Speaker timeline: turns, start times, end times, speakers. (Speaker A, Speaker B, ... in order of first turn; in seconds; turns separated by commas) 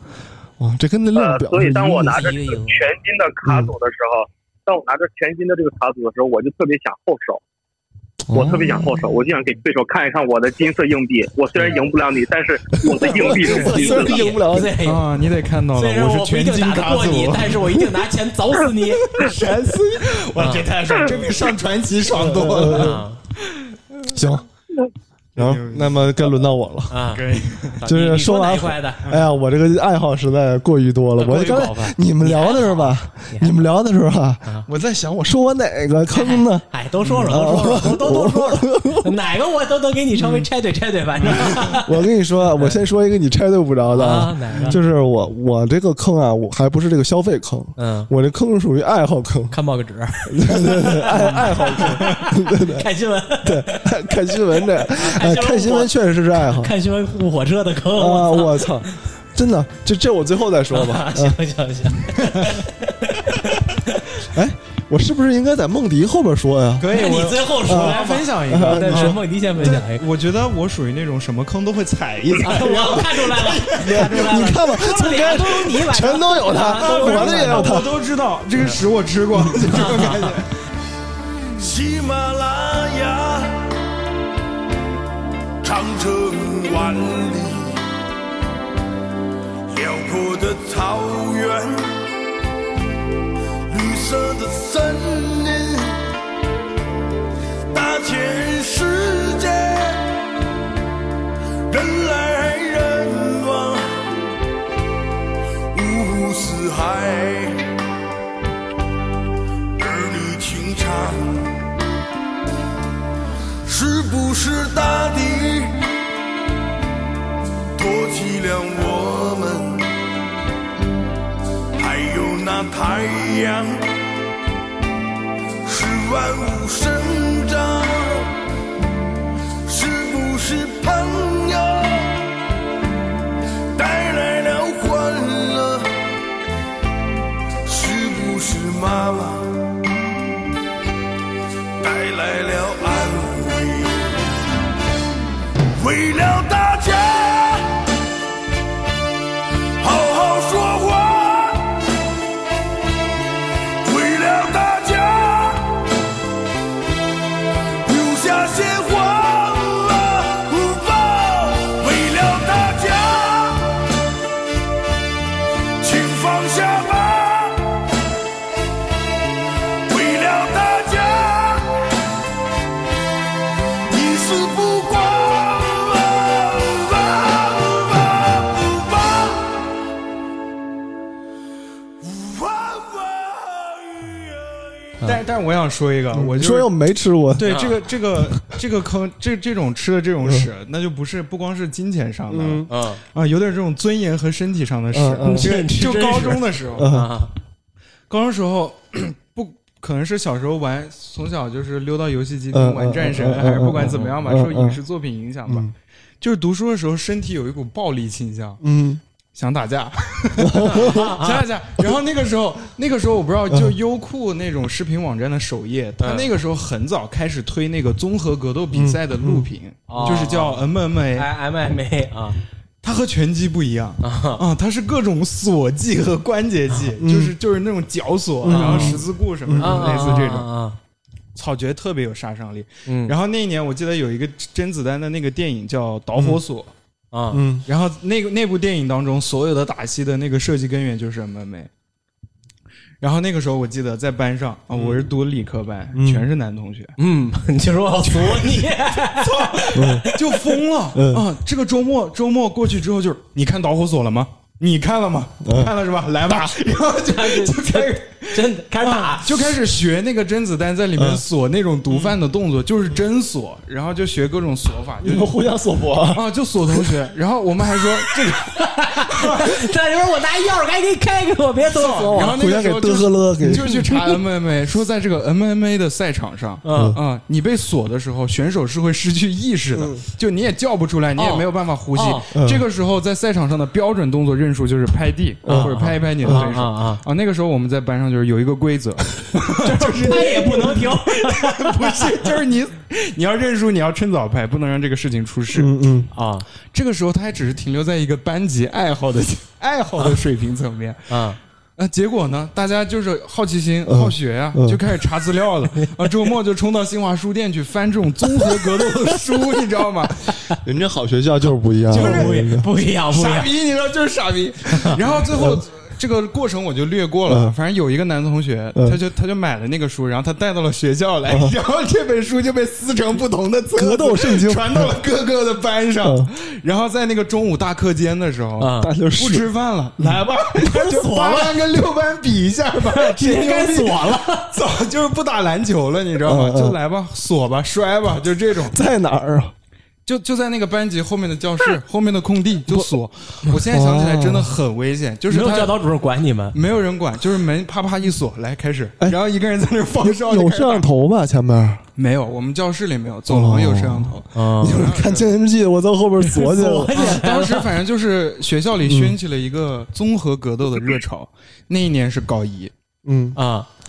Speaker A: 0.6-2.4, Speaker B: 1.2-7.4, Speaker C: 2.0-2.8, Speaker A: 3.5-3.7, Speaker A: 8.3-9.1, Speaker B: 8.3-14.2, Speaker A: 12.8-14.8, Speaker D: 13.2-13.8, Speaker C: 13.6-15.1, Speaker D: 14.8-17.8, Speaker C: 15.8-19.2, Speaker D: 19.1-23.0, Speaker C: 20.4-20.7, Speaker A: 22.1-23.0, Speaker C: 22.7-23.2, Speaker A: 24.1-24.5, Speaker D: 25.4-26.2, Speaker A: 25.4-27.0, Speaker C: 26.9-27.2, Speaker D: 27.1-27.8, Speaker C: 27.8-29.0, Speaker A: 27.9-36.7, Speaker C: 31.2-33.6, Speaker C: 36.1-41.9, Speaker D: 37.0-37.4, Speaker A: 37.3-39.1, Speaker D: 40.2-40.5, Speaker D: 41.2-41.6, Speaker A: 41.3-49.6, Speaker C: 43.9-44.8, Speaker C: 47.8-48.1, Speaker C: 49.5-53.9, Speaker A: 50.3-52.9, Speaker A: 53.4-56.7, Speaker C: 54.7-58.8, Speaker A: 57.9-61.4, Speaker C: 60.7-63.8, Speaker A: 64.3-66.9, Speaker D: 66.8-74.4, Speaker C: 66.9-70.0, Speaker A: 67.6-69.2, Speaker C: 72.4-77.8, Speaker A: 73.8-77.9, Speaker D: 76.7-80.5, Speaker C: 79.8-80.3, Speaker E: 81.6-83.6, Speaker E: 85.6-87.8, Speaker E: 89.7-91.9, Speaker E: 93.7-96.0, Speaker E: 97.7-100.1, Speaker E: 101.7-104.1, Speaker E: 105.7-107.6, Speaker E: 109.8-111.5, Speaker E: 113.7-115.8, Speaker E: 117.8-119.9, Speaker E: 121.8-123.9, Speaker E: 125.7-128.3, Speaker E: 129.7-132.2, Speaker E: 133.8-135.9, Speaker E: 137.7-139.6, Speaker E: 141.8-144.1, Speaker E: 145.8-147.9, Speaker E: 149.8-151.8, Speaker E: 153.8-155.8, Speaker E: 157.8-163.9, Speaker E: 165.8-167.8, Speaker E: 169.9-171.8, Speaker E: 173.9-179.7, Speaker E: 182.0-185.0, Speaker D: 185.1-186.7, Speaker A: 186.1-187.6, Speaker D: 187.4-196.9, Speaker C: 187.5-187.7, Speaker A: 192.3-192.7, Speaker C: 192.7-193.0, Speaker A: 194.9-195.5, Speaker C: 195.2-197.3, Speaker A: 196.8-197.1, Speaker D: 198.1-205.7, Speaker A: 202.5-204.8, Speaker A: 205.5-205.7, Speaker D: 206.2-208.6, Speaker A: 208.6-209.0, Speaker D: 209.3-221.3, Speaker A: 210.4-210.9, Speaker C: 210.7-211.4, Speaker C: 216.0-216.3, Speaker A: 218.7-219.5, Speaker C: 219.9-222.4, Speaker D: 222.8-230.5, Speaker C: 224.0-224.4, Speaker A: 227.0-227.3, Speaker A: 228.4-229.9, Speaker C: 228.5-229.0, Speaker C: 229.6-230.8, Speaker D: 231.4-236.7, Speaker C: 232.9-233.1, Speaker A: 236.2-236.4, Speaker C: 237.1-237.4, Speaker A: 237.3-237.7, Speaker D: 237.7-241.7, Speaker D: 243.0-247.0, Speaker A: 245.9-246.3, Speaker C: 247.0-250.2, Speaker D: 248.0-265.4, Speaker A: 249.7-250.1, Speaker A: 250.9-251.2, Speaker A: 255.4-255.7, Speaker C: 257.1-259.4, Speaker A: 261.0-261.2, Speaker A: 265.0-266.9, Speaker D: 266.1-269.6, Speaker C: 268.1-272.4, Speaker D: 271.7-295.7, Speaker A: 272.1-273.8, Speaker C: 273.7-274.0, Speaker C: 276.6-277.0, Speaker A: 276.7-277.0, Speaker A: 279.7-280.0, Speaker C: 281.2-282.2, Speaker A: 282.4-282.6, Speaker C: 285.5-287.0, Speaker A: 285.5-286.5, Speaker C: 289.6-292.1, Speaker A: 295.5-296.1, Speaker C: 296.1-296.5, Speaker D: 296.7-301.1, Speaker C: 301.1-301.4, Speaker D: 301.8-310.4, Speaker A: 303.9-304.8, Speaker A: 310.6-312.7, Speaker C: 311.9-313.5, Speaker D: 311.9-312.4, Speaker D: 313.1-338.8, Speaker A: 315.3-315.6, Speaker A: 317.3-317.6, Speaker A: 321.3-321.6, Speaker A: 323.8-324.9, Speaker A: 326.0-326.3, Speaker C: 328.6-328.9, Speaker A: 328.8-329.5, Speaker C: 330.6-331.6, Speaker C: 332.9-334.5, Speaker A: 336.2-336.8, Speaker A: 338.7-339.5, Speaker D: 340.1-345.8, Speaker A: 343.5-344.5, Speaker C: 345.3-346.6, Speaker D: 346.5-350.9, Speaker A: 350.0-351.8, Speaker D: 352.0-355.3, Speaker A: 353.3-357.2, Speaker C: 354.3-354.8, Speaker C: 356.2-357.7, Speaker D: 356.9-362.7, Speaker A: 358.9-359.2, Speaker A: 363.1-363.4, Speaker C: 363.4-363.7